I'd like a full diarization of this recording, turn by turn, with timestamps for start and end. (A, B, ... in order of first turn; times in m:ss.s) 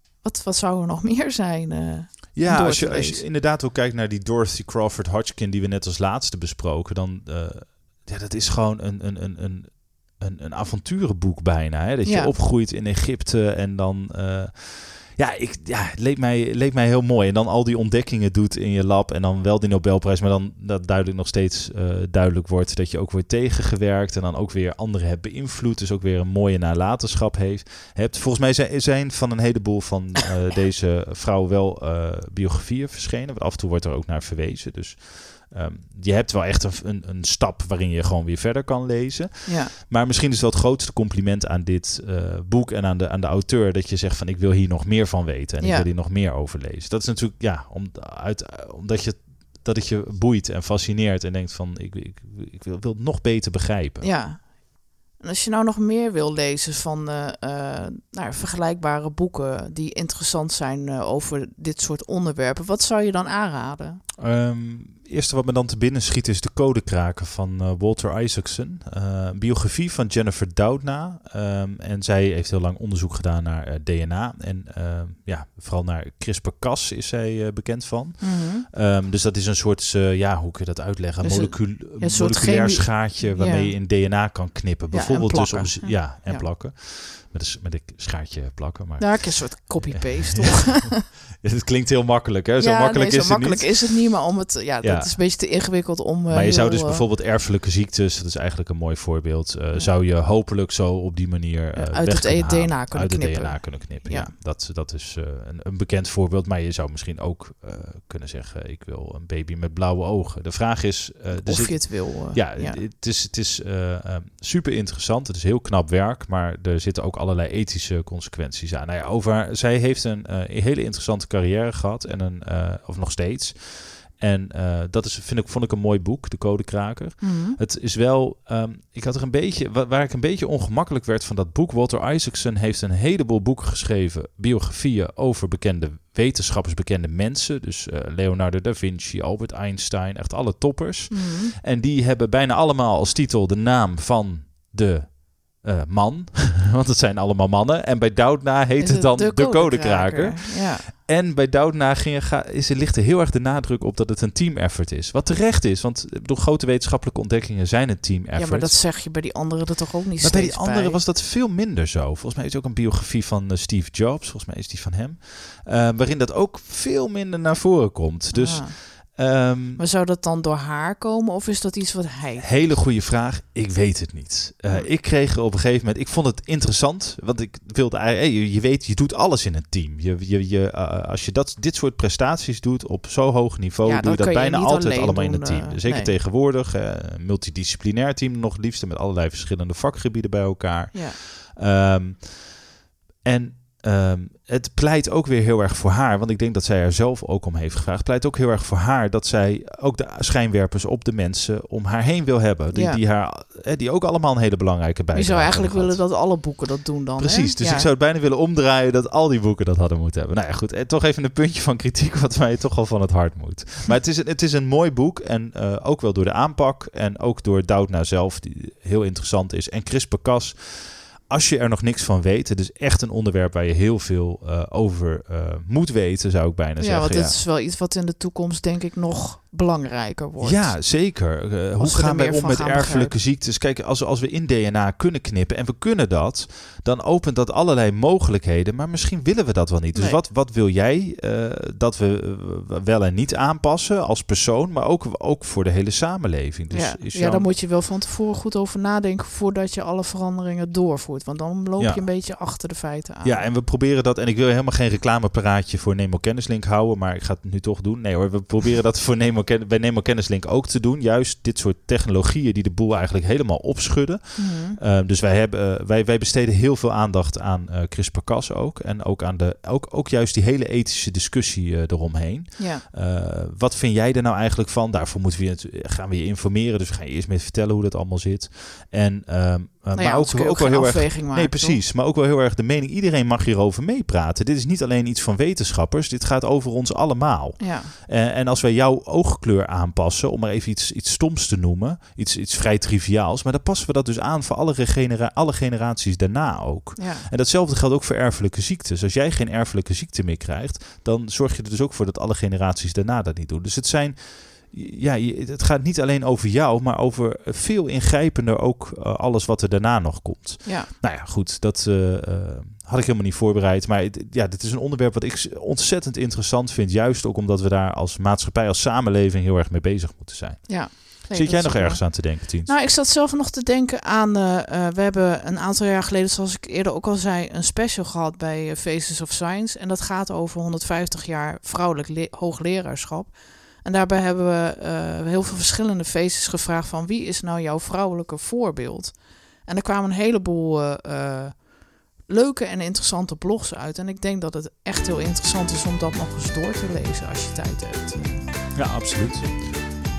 0:00.2-0:03.2 A
0:02.3-0:54.1 B
0:12.0-0:12.3 A
0:39.4-0:39.7 A
0:45.6-0:45.9 A
0:54.0-1:04.0 A
1:04.2-1:34.1 B
1:18.2-1:18.7 A
1:21.2-1:23.8 A
1:24.9-1:26.5 A
1:29.0-1:31.0 A
1:32.6-1:37.1 A
1:34.8-1:35.3 B
1:36.3-2:38.8 B
1:41.8-1:44.3 A
1:51.3-1:52.8 A
2:07.2-2:07.6 A
2:21.1-2:21.6 A
2:28.8-2:30.9 A
2:38.4-2:41.0 A
2:40.2-2:49.8 B
2:48.3-2:49.2 A
2:49.8-2:52.8 A
2:52.4-3:12.6 B
3:03.8-3:06.1 A
3:10.9-3:11.2 A
3:13.2-3:26.1 B
3:22.7-3:23.0 A
3:25.1-3:27.9 A
3:27.2-3:47.4 B
3:46.8-3:50.9 A
3:50.4-4:07.5 B
3:51.8-3:53.1 A
3:59.9-4:00.2 A
4:06.7-4:13.5 A
4:11.8-4:12.1 B
4:13.2-5:22.7 B
4:24.4-4:24.8 A
4:32.6-4:32.8 A
4:39.9-4:41.8 A
4:47.6-4:47.9 A
4:57.0-4:57.3 A
5:10.6-5:10.9 A
5:20.7-5:48.5 A
5:48.8-5:49.8 B